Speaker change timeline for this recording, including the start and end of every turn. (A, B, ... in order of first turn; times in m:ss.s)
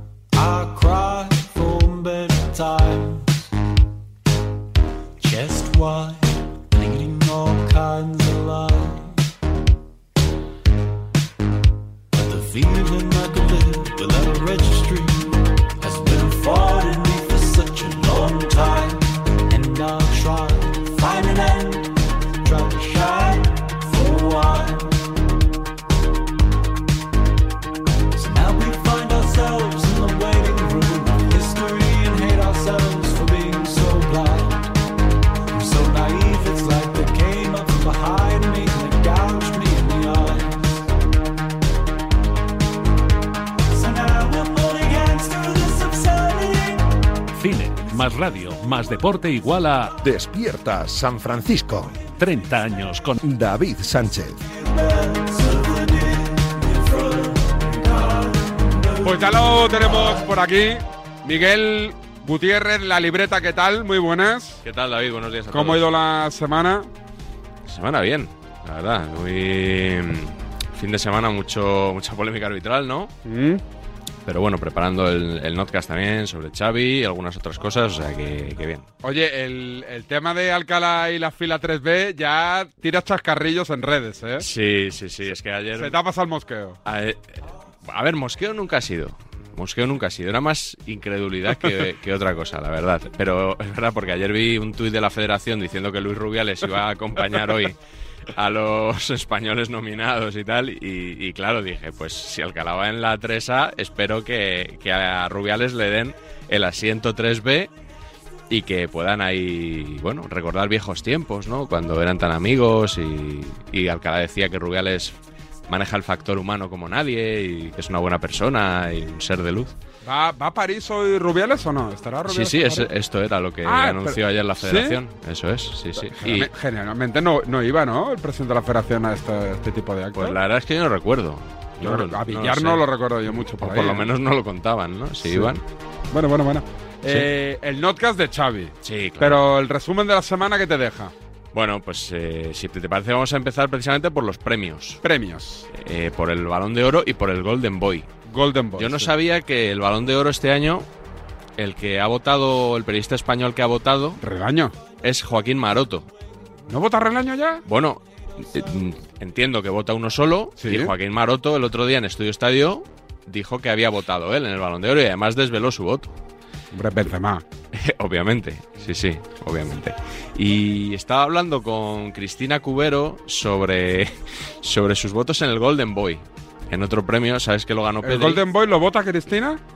0:00.3-0:03.4 A
0:05.2-0:09.2 A
0:12.1-0:25.0 A
0:28.2-0:34.7 A
0:35.5-0:40.8 A
0:43.7-0:46.9 A
0:47.3-0:50.0 B
0:50.0-0:52.0 C
0:52.2-0:53.2 B
0:53.2-0:54.4 C
0:54.5-1:00.3 A
0:59.0-1:04.6 D
1:04.6-1:05.9 E
1:05.5-1:06.9 D
1:07.7-1:13.1 E
1:13.2-1:13.6 D
1:14.2-1:18.9 E
1:19.0-1:24.4 D
1:24.4-1:25.9 E
1:25.8-1:26.8 D
1:26.8-1:37.8 E
1:38.3-1:47.7 E
1:48.5-1:55.2 E
1:55.7-1:59.7 E
2:00.0-2:02.9 D
2:02.3-2:06.5 E
2:03.6-2:05.0 D
2:06.0-2:10.4 D
2:10.2-2:12.9 E
2:11.8-2:14.1 D
2:13.6-2:15.6 E
2:15.2-2:15.5 D
2:16.1-2:21.1 D
2:18.8-2:19.4 E
2:21.5-2:25.0 E
2:25.0-2:25.7 D
2:25.7-2:28.1 E
2:28.3-2:29.1 D
2:28.8-2:30.9 E
2:31.6-2:34.2 E
2:34.2-2:34.7 D
2:35.0-2:36.1 E
2:36.7-2:37.6 D
2:37.7-2:46.1 E
2:40.6-2:40.9 D
2:46.7-2:47.4 D
2:47.7-2:58.4 E
2:58.0-2:59.6 D